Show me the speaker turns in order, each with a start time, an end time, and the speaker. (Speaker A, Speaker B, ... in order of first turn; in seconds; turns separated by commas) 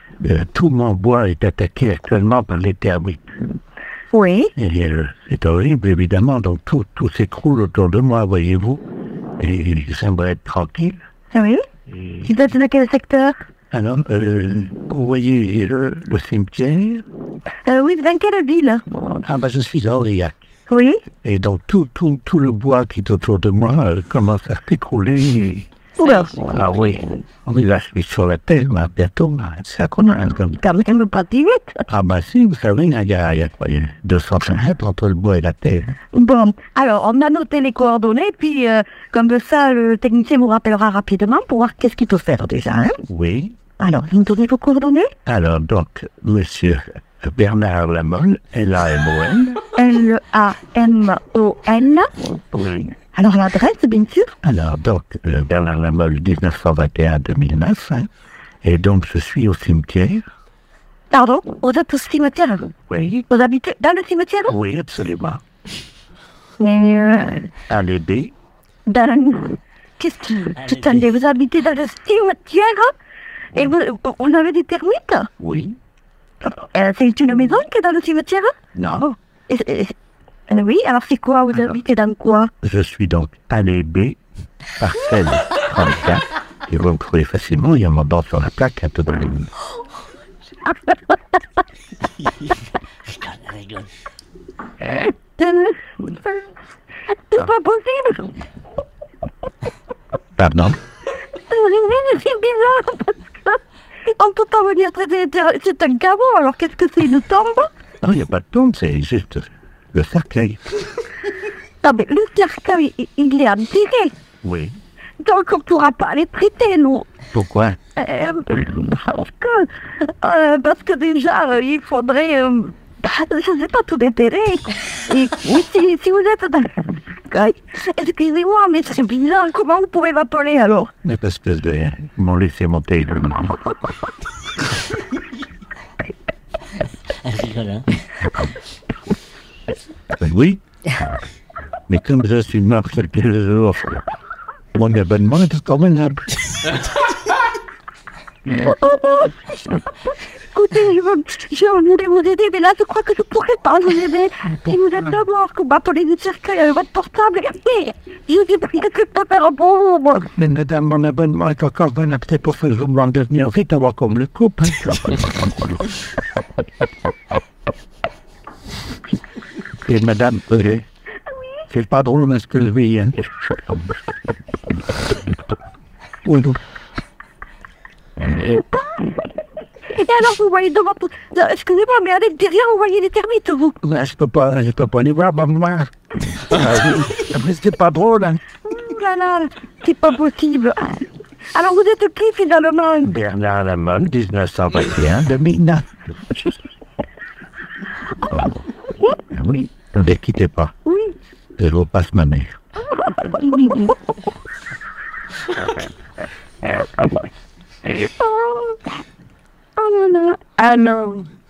Speaker A: 0.2-3.2, Speaker B: 4.1-4.5, Speaker A: 4.6-8.8, Speaker A: 9.4-11.0, Speaker B: 11.3-11.6, Speaker B: 12.2-13.3, Speaker A: 13.7-17.1, Speaker B: 17.7-18.8, Speaker A: 19.2-20.4, Speaker B: 20.7-21.0, Speaker A: 21.2-25.7, Speaker B: 26.0-26.7, Speaker A: 26.2-30.6, Speaker B: 30.6-31.8, Speaker A: 31.9-36.0, Speaker B: 36.1-43.0, Speaker A: 43.1-43.6, Speaker B: 43.8-45.1, Speaker A: 45.3-49.6, Speaker B: 49.7-52.1, Speaker A: 52.5-53.0, Speaker B: 53.1-54.3, Speaker A: 54.4-58.1, Speaker A: 58.6-60.2, Speaker B: 61.1-62.8, Speaker A: 62.9-63.3, Speaker B: 63.3-64.5, Speaker A: 64.5-65.4, Speaker B: 66.6-67.5, Speaker A: 67.7-68.3, Speaker B: 68.9-72.9, Speaker C: 70.5-71.1, Speaker B: 73.5-75.3, Speaker A: 75.4-75.8, Speaker B: 76.7-78.5, Speaker A: 78.8-79.1, Speaker B: 79.5-79.9, Speaker B: 80.5-82.5, Speaker A: 82.6-84.2, Speaker A: 84.8-89.5, Speaker C: 93.1-93.9, Speaker B: 95.0-96.4, Speaker B: 97.3-98.3, Speaker A: 100.4-100.8, Speaker B: 101.5-107.7, Speaker A: 108.0-110.6, Speaker B: 111.8-114.1, Speaker A: 114.4-114.8, Speaker B: 115.2-117.1, Speaker A: 117.3-117.8, Speaker B: 118.0-119.7, Speaker B: 120.2-130.9, Speaker A: 131.0-133.6, Speaker C: 137.2-137.9, Speaker A: 140.1-140.6, Speaker A: 141.9-144.1, Speaker A: 144.7-146.3, Speaker B: 148.5-160.3, Speaker A: 160.3-165.9, Speaker A: 169.9-170.8, Speaker A: 171.7-174.0, Speaker A: 176.2-176.6, Speaker B: 180.0-183.8, Speaker A: 183.8-188.4, Speaker B: 188.7-191.0, Speaker B: 191.5-193.1, Speaker A: 193.1-196.5, Speaker A: 199.3-200.7, Speaker B: 200.9-201.1, Speaker A: 201.6-202.6, Speaker B: 202.9-203.9, Speaker B: 207.9-208.8, Speaker B: 209.8-211.0, Speaker A: 210.8-211.2